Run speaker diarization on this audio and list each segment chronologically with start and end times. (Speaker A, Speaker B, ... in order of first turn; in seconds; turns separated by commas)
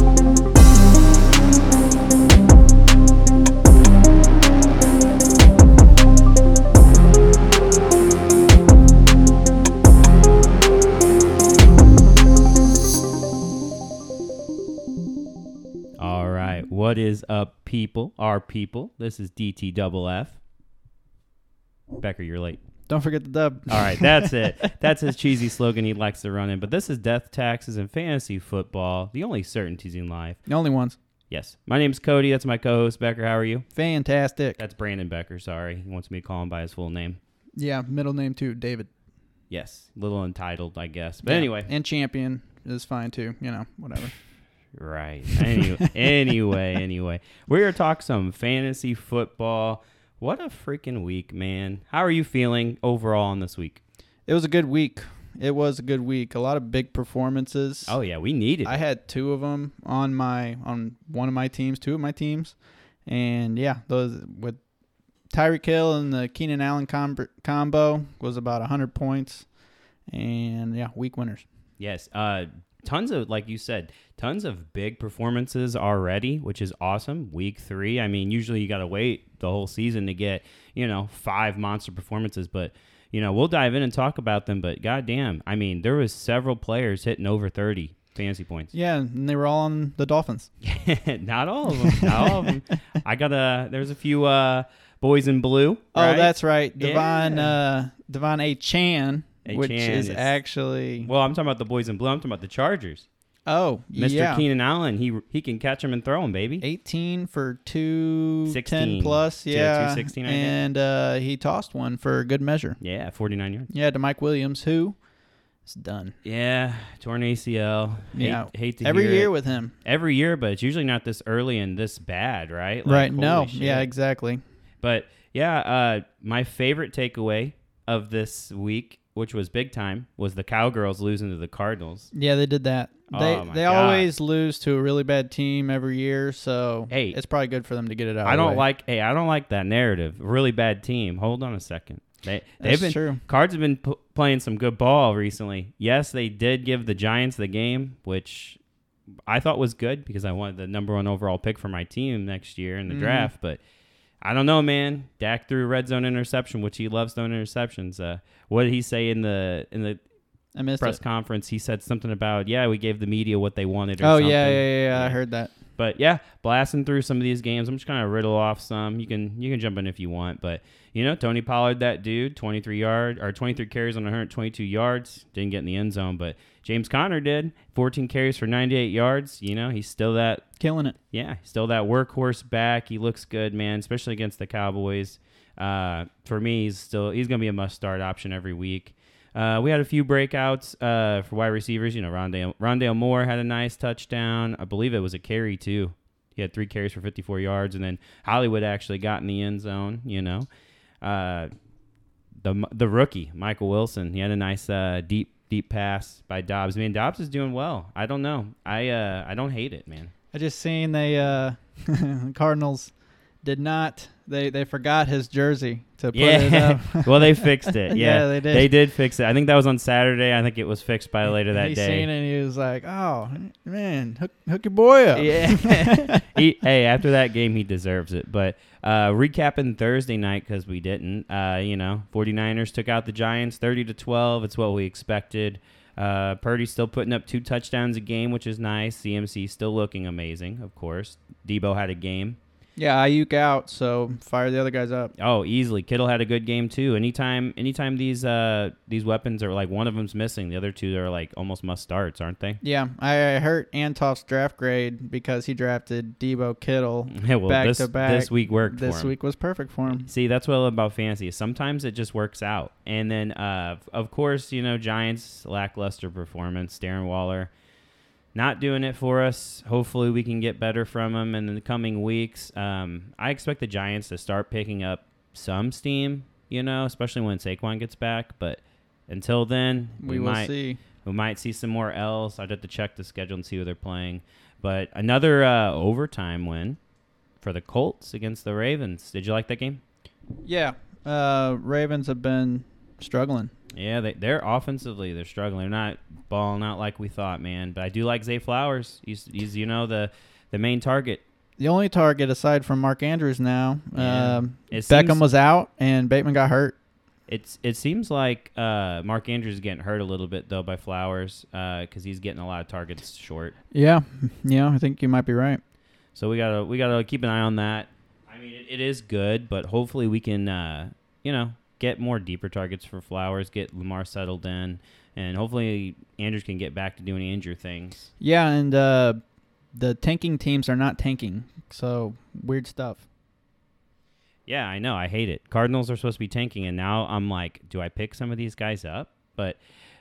Speaker A: 16.0-20.4, Speaker A: 22.0-22.6, Speaker B: 22.9-24.8, Speaker A: 23.7-30.4, Speaker B: 30.5-31.0, Speaker A: 31.3-33.7, Speaker B: 33.8-34.6, Speaker A: 34.6-37.2, Speaker B: 37.6-38.9, Speaker A: 39.5-41.7, Speaker B: 41.2-44.2, Speaker A: 44.8-53.8, Speaker B: 45.3-46.3, Speaker B: 54.3-58.0, Speaker A: 57.9-58.8, Speaker B: 58.6-62.5, Speaker B: 63.1-64.6, Speaker B: 65.3-69.5, Speaker B: 70.1-71.5, Speaker A: 71.8-88.7, Speaker B: 88.7-90.5, Speaker A: 90.6-97.5, Speaker B: 91.9-92.5, Speaker B: 95.9-101.1, Speaker A: 99.5-100.3, Speaker A: 101.0-103.1, Speaker B: 103.5-104.4, Speaker A: 104.0-106.6, Speaker B: 106.6-112.8, Speaker A: 108.5-110.6, Speaker A: 112.8-113.7, Speaker B: 113.7-115.0, Speaker B: 115.7-116.2, Speaker A: 116.2-119.3, Speaker B: 118.1-119.7, Speaker A: 119.8-123.9, Speaker B: 122.9-124.4, Speaker A: 124.8-132.1, Speaker B: 132.1-138.6, Speaker A: 133.1-134.1, Speaker A: 136.9-137.2, Speaker A: 138.2-148.6, Speaker B: 142.6-143.2, Speaker A: 149.3-153.6, Speaker B: 152.9-153.3, Speaker A: 154.2-160.0, Speaker B: 160.5-161.0, Speaker A: 160.8-165.2, Speaker B: 164.0-165.5, Speaker A: 165.8-180.5, Speaker B: 180.6-181.0, Speaker A: 181.1-200.5, Speaker A: 201.0-201.5, Speaker A: 202.4-210.1, Speaker B: 210.3-218.7, Speaker A: 216.1-222.1, Speaker B: 221.5-226.3, Speaker A: 225.2-242.4, Speaker B: 242.8-245.1, Speaker A: 245.2-252.6, Speaker B: 252.6-260.1, Speaker A: 257.1-259.1, Speaker A: 259.9-267.5, Speaker A: 268.4-286.8, Speaker B: 280.0-280.8, Speaker A: 287.4-289.8, Speaker B: 290.4-293.5, Speaker A: 293.7-301.2, Speaker B: 301.6-306.8, Speaker A: 303.9-305.2, Speaker A: 307.3-313.5, Speaker B: 313.7-315.6, Speaker A: 316.1-328.1, Speaker B: 328.2-329.2, Speaker B: 329.7-333.1, Speaker A: 334.5-339.6